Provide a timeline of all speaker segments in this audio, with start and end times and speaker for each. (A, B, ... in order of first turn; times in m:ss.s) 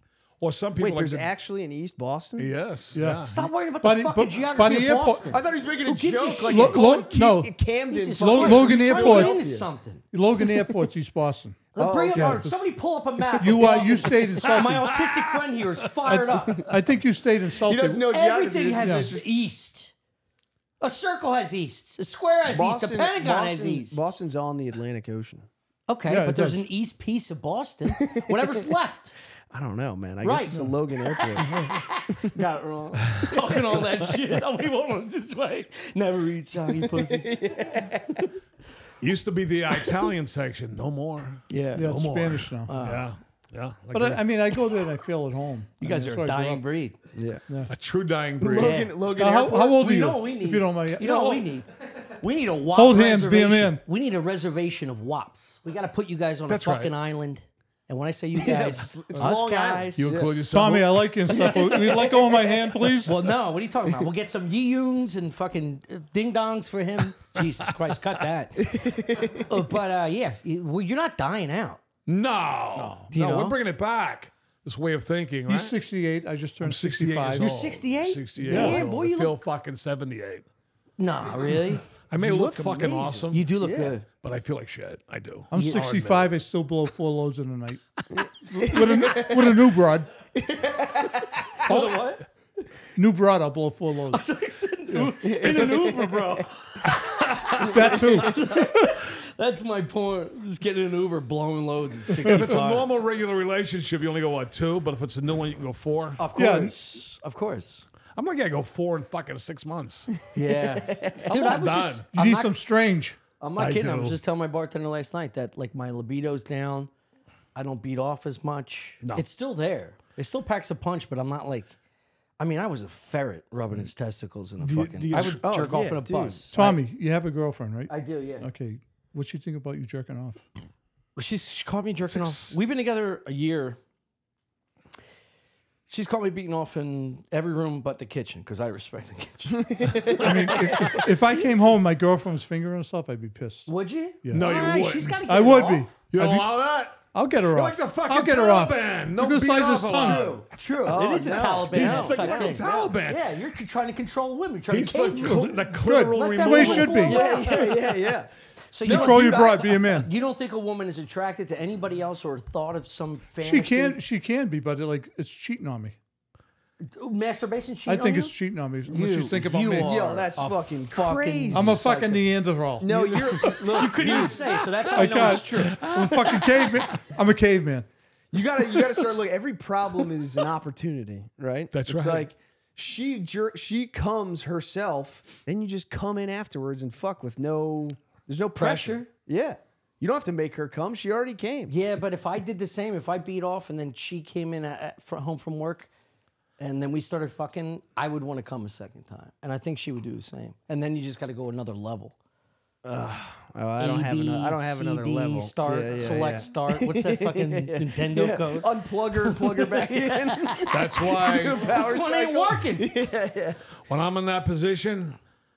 0:00.4-0:01.3 A
0:00.8-0:02.5 B
0:02.4-0:03.4 A
0:02.9-0:05.3 C
0:03.2-0:06.9 D
0:05.3-0:09.7 B
0:06.4-0:07.5 C
0:07.9-0:10.0 D
0:08.2-0:09.3 C
0:10.1-0:12.6 C
0:11.7-0:16.7 D
0:11.8-0:12.4 B
0:13.4-0:14.9 C
0:13.5-0:13.9 B
0:14.5-0:15.4 A
0:16.0-0:18.0 C
0:17.6-0:19.3 B
0:18.1-0:19.9 D
0:18.8-0:19.1 C
0:20.8-0:24.1 D
0:22.5-0:25.5 B
0:25.9-0:29.1 D
0:26.1-0:26.6 C
0:27.9-0:28.5 B
0:29.5-0:32.2 B
0:30.2-0:30.6 D
0:31.2-0:37.6 D
0:33.1-0:33.4 A
0:36.7-0:38.3 B
0:39.0-0:44.6 A
0:41.5-0:41.9 D
0:41.7-0:42.7 C
0:42.7-0:43.1 D
0:43.9-0:46.6 C
0:45.8-0:47.0 D
0:47.1-0:47.4 B
0:47.7-0:48.8 A
0:48.4-0:49.9 B
0:48.5-0:49.1 D
0:49.2-0:51.5 C
0:49.7-1:00.1 D
0:52.7-0:53.8 C
0:56.5-0:56.9 A
0:58.3-1:00.4 B
1:00.0-1:01.5 A
1:00.5-1:03.2 C
1:01.6-1:02.2 B
1:03.0-1:11.8 D
1:08.6-1:09.6 B
1:12.1-1:15.8 A
1:12.8-1:13.0 C
1:13.1-1:13.6 D
1:15.5-1:17.5 C
1:16.6-1:20.4 A
1:17.4-1:19.4 D
1:18.5-1:18.8 B
1:21.0-1:21.8 D
1:22.0-1:23.5 A
1:22.2-1:24.0 B
1:23.3-1:24.0 D
1:24.2-1:26.4 A
1:25.5-1:30.1 C
1:25.5-1:25.8 D
1:28.1-1:29.7 B
1:30.3-1:31.8 B
1:31.6-1:32.2 D
1:33.0-1:34.2 C
1:34.1-1:42.9 D
1:35.2-1:36.4 B
1:36.9-1:37.7 A
1:37.6-1:38.6 C
1:42.2-1:42.5 C
1:42.2-1:46.2 A
1:46.2-1:47.8 D
1:46.3-1:46.7 C
1:48.2-1:50.1 A
1:50.3-1:52.6 D
1:50.7-1:51.3 B
1:51.2-1:52.1 A
1:52.1-1:53.2 C
1:53.4-1:56.9 D
1:53.6-1:54.2 A
1:57.5-2:01.7 D
2:02.4-2:06.8 D
2:04.6-2:05.4 A
2:05.2-2:06.7 B
2:06.5-2:10.4 C
2:07.9-2:08.5 D
2:11.2-2:13.8 D
2:12.1-2:12.6 A
2:15.9-2:21.0 D
2:19.6-2:20.9 B
2:20.2-2:23.7 C
2:20.2-2:20.5 A
2:23.7-2:25.9 D
2:24.3-2:25.2 A
2:25.3-2:26.5 C
2:26.1-2:30.4 A
2:27.1-2:30.4 C
2:29.9-2:35.4 D
2:30.8-2:32.9 B
2:31.7-2:33.3 A
2:34.7-2:37.2 A
2:35.2-2:37.2 C
2:36.1-2:37.8 D
2:37.0-2:38.3 B
2:38.7-2:44.0 D
2:38.8-2:39.8 B
2:38.8-2:40.1 C
2:43.4-2:46.0 C
2:46.9-2:48.3 D
2:47.8-2:50.0 C
2:48.8-2:52.3 D
2:49.8-2:51.8 B
2:51.5-2:53.6 C
2:52.8-2:54.5 B
2:52.9-2:56.1 D
2:54.9-2:56.9 A
2:54.9-2:57.9 C
2:58.3-3:11.7 B
3:01.7-3:02.3 A
3:08.6-3:09.1 D
3:11.7-3:15.9 D
3:16.6-3:22.2 D
3:22.8-3:33.6 B
3:23.8-3:32.9 D
3:30.7-3:31.7 A
3:33.8-3:35.2 A